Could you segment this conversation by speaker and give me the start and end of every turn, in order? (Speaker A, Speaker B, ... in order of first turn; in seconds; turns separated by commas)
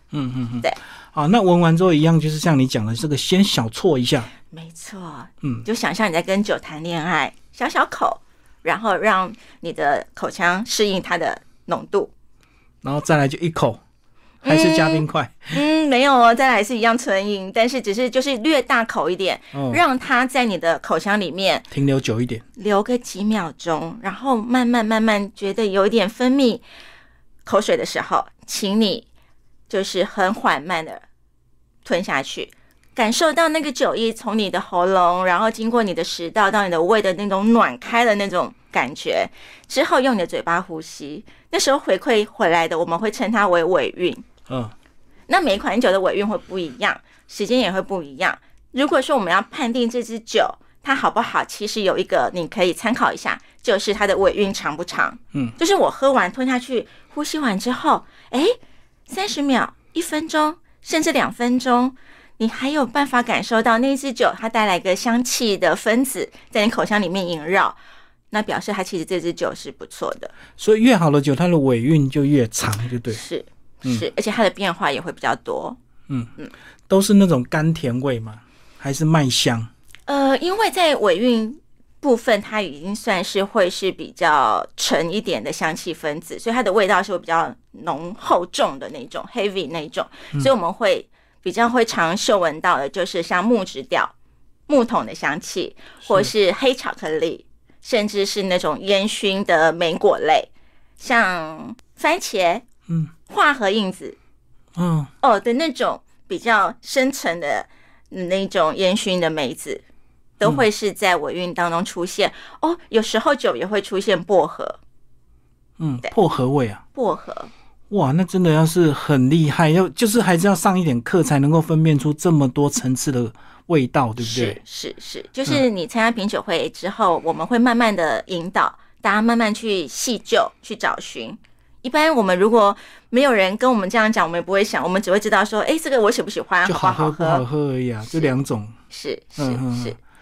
Speaker A: 0.1-4.3, Speaker B: 4.5-12.1, Speaker A: 12.8-13.8, Speaker B: 14.4-21.7, Speaker A: 14.4-15.6, Speaker A: 19.5-19.8, Speaker A: 21.7-22.4, Speaker B: 22.6-26.6, Speaker B: 27.4-29.1, Speaker B: 29.7-31.0, Speaker B: 31.9-44.2, Speaker A: 44.5-44.7, Speaker B: 45.3-58.6, Speaker B: 59.1-67.8, Speaker B: 68.3-70.3, Speaker A: 70.6-73.2, Speaker B: 73.1-75.8, Speaker A: 76.9-79.7, Speaker B: 80.1-94.1, Speaker B: 94.7-102.7, Speaker B: 103.3-104.2, Speaker A: 104.8-105.1, Speaker B: 105.2-109.8, Speaker B: 110.4-114.8, Speaker A: 115.8-116.8, Speaker B: 117.0-117.5, Speaker A: 117.9-124.6, Speaker B: 124.2-137.4, Speaker A: 136.7-138.8, Speaker B: 138.9-140.0, Speaker A: 139.4-140.0